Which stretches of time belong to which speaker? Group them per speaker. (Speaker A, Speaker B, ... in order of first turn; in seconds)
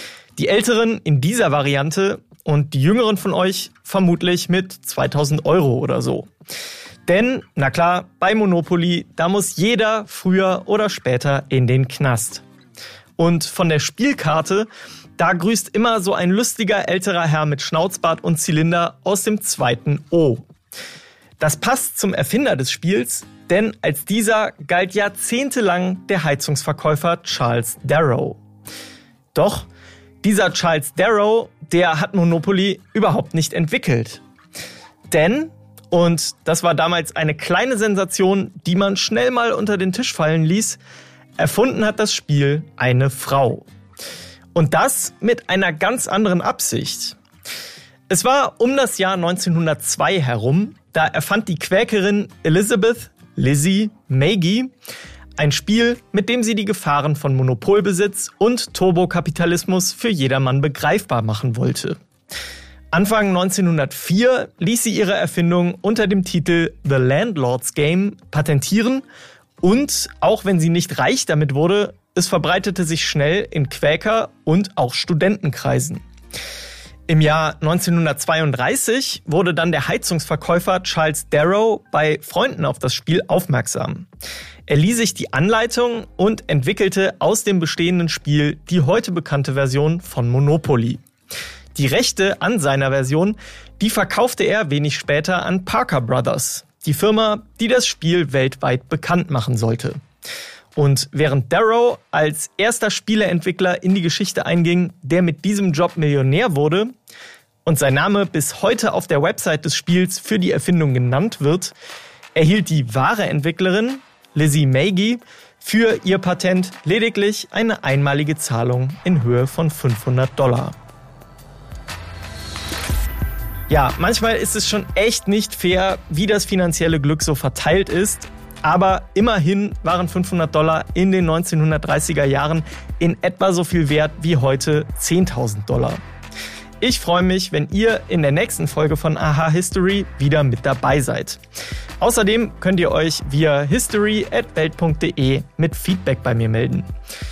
Speaker A: 0.3-6.3, 7.1-12.4, 13.2-20.4, 21.4-28.4, 29.3-29.7, 30.2-34.2, 35.1-40.8, 41.4-43.7, 44.5-47.2, 48.1-54.7, 55.4-62.0, 62.9-69.0, 69.6-76.0, 77.1-84.1, 84.7-91.0, 91.8-100.0, 100.8-106.9, 107.6-111.8, 112.3-120.8, 123.7-136.0, 136.8-141.4, 142.0-146.9